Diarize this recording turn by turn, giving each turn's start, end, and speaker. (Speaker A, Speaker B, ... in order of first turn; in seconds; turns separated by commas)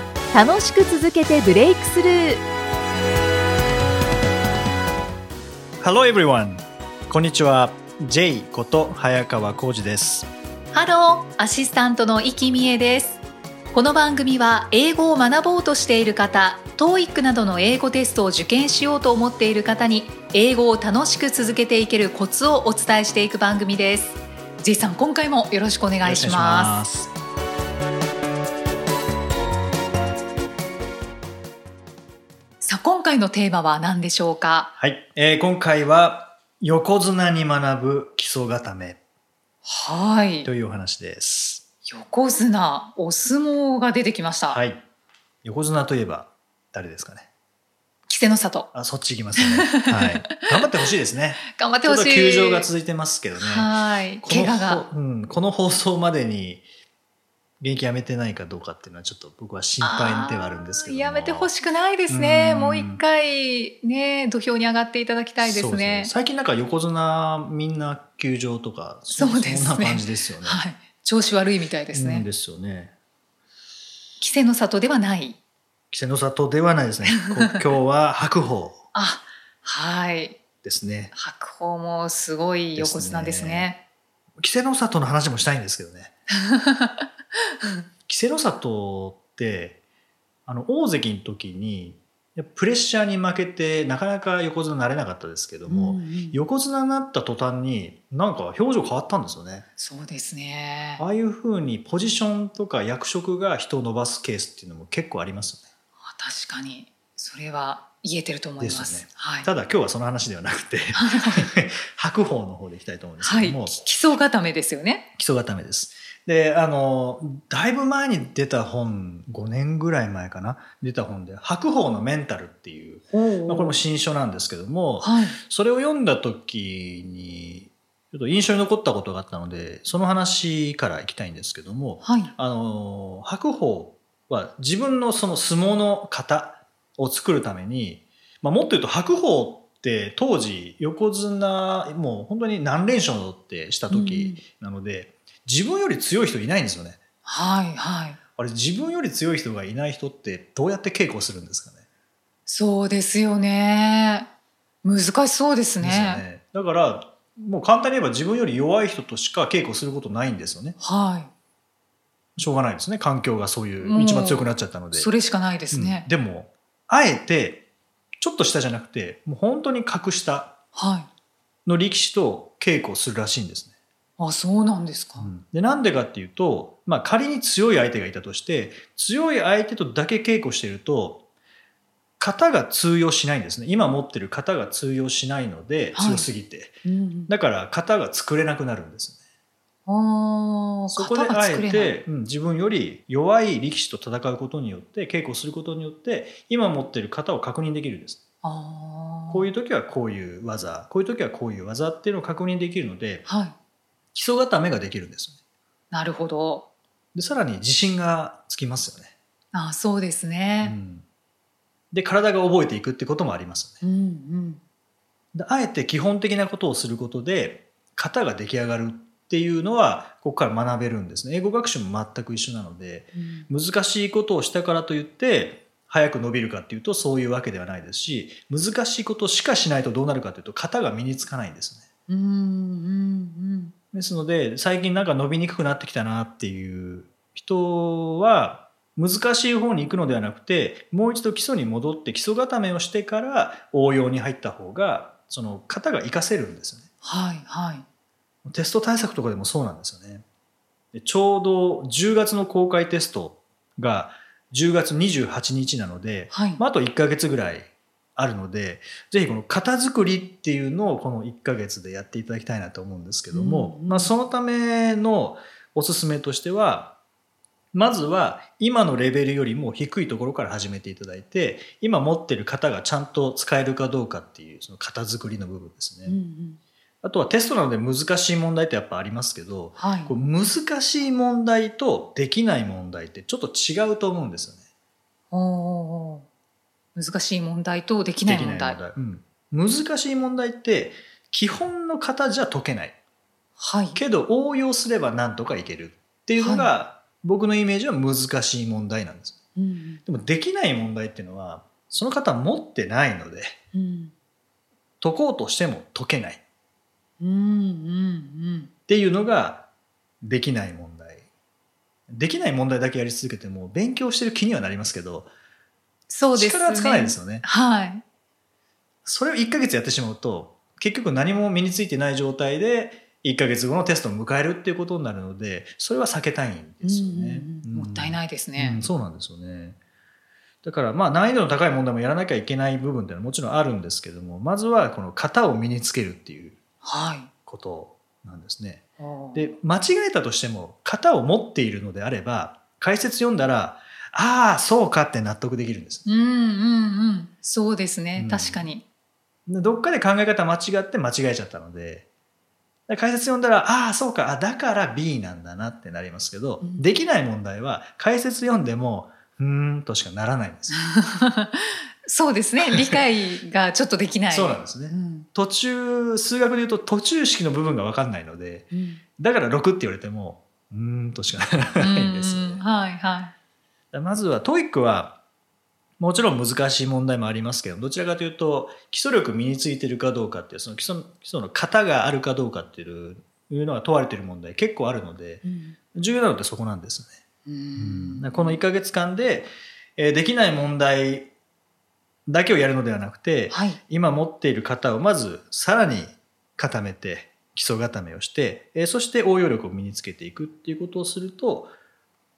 Speaker A: 0.3-2.4, Speaker B: 5.8-10.3, Speaker A: 10.7-26.7, Speaker B: 26.0-27.1, Speaker A: 32.6-34.7, Speaker B: 34.8-39.0, Speaker A: 39.6-40.5, Speaker B: 40.5-41.6, Speaker A: 41.8-44.6, Speaker B: 44.5-44.8, Speaker B: 45.4-47.3, Speaker A: 48.1-48.7, Speaker B: 48.7-56.6, Speaker A: 49.4-50.5, Speaker A: 51.5-52.7, Speaker A: 53.4-54.9, Speaker B: 57.6-61.5, Speaker A: 59.8-66.1, Speaker B: 62.1-63.0, Speaker B: 65.4-70.6, Speaker A: 69.1-72.3, Speaker B: 71.9-72.9, Speaker A: 74.2-75.4, Speaker B: 75.9-78.8, Speaker A: 78.9-80.4, Speaker B: 80.6-81.1, Speaker A: 81.1-83.8, Speaker B: 82.8-83.7, Speaker B: 84.4-86.1, Speaker A: 86.4-87.1, Speaker B: 88.1-89.8, Speaker B: 90.5-99.7, Speaker A: 95.7-96.4, Speaker A: 99.8-101.0, Speaker B: 101.0-105.7, Speaker A: 106.0-109.5, Speaker B: 108.6-113.8, Speaker A: 111.0-111.5, Speaker A: 113.2-115.1, Speaker B: 115.2-147.0, Speaker A: 123.1-123.8, Speaker A: 125.0-125.4, Speaker A: 132.0-132.3, Speaker A: 143.9-144.4, Speaker A: 147.2-148.2, Speaker B: 148.4-151.8, Speaker A: 152.5-154.3, Speaker A: 154.8-156.2, Speaker B: 155.8-160.8, Speaker A: 160.8-161.3, Speaker B: 162.4-165.1, Speaker A: 163.8-166.1, Speaker B: 165.7-167.6, Speaker B: 168.2-170.6, Speaker A: 170.8-171.1, Speaker B: 171.7-173.7, Speaker A: 174.2-175.3, Speaker B: 175.2-181.2, Speaker B: 182.2-189.2, Speaker A: 185.9-186.3, Speaker A: 186.8-187.3, Speaker A: 189.9-192.0, Speaker B: 190.9-198.2, Speaker A: 198.4-199.5, Speaker B: 199.3-203.3, Speaker A: 203.2-203.6, Speaker B: 204.1-205.4, Speaker A: 205.9-206.7, Speaker B: 207.1-209.1, Speaker A: 209.5-210.8, Speaker B: 210.6-211.1, Speaker B: 211.9-213.8, Speaker A: 213.8-214.6, Speaker B: 215.3-231.8, Speaker A: 223.1-223.5, Speaker A: 232.1-233.7, Speaker B: 233.9-246.9, Speaker A: 247.0-247.8, Speaker B: 248.4-250.2, Speaker B: 250.9-267.0, Speaker A: 256.3-256.6, Speaker A: 263.3-264.1, Speaker B: 267.7-276.2, Speaker A: 276.1-276.6, Speaker B: 277.0-284.6, Speaker A: 279.8-280.1, Speaker A: 285.3-286.2, Speaker A: 286.9-288.8, Speaker B: 288.2-292.9, Speaker A: 293.6-294.0, Speaker B: 293.9-299.4, Speaker A: 296.4-296.7, Speaker A: 299.6-300.0, Speaker B: 300.1-303.5, Speaker A: 303.7-304.1, Speaker B: 305.0-306.4, Speaker A: 307.2-308.7, Speaker B: 308.9-309.7, Speaker B: 310.2-311.2, Speaker B: 312.1-315.3, Speaker A: 316.1-318.0, Speaker B: 316.3-317.4, Speaker B: 319.0-329.8, Speaker A: 326.8-328.8, Speaker B: 330.6-336.6, Speaker A: 336.8-337.3, Speaker B: 337.4-346.1, Speaker A: 339.0-339.5, Speaker A: 346.1-348.8, Speaker B: 348.1-348.7, Speaker B: 349.5-352.1, Speaker B: 352.9-360.8, Speaker A: 360.7-365.3, Speaker B: 364.3-372.6, Speaker A: 368.7-369.0, Speaker A: 371.8-373.3, Speaker B: 373.9-375.2, Speaker B: 376.0-387.2, Speaker A: 385.4-385.8, Speaker A: 387.4-388.6, Speaker B: 387.8-391.3, Speaker B: 392.3-401.7, Speaker A: 393.5-393.8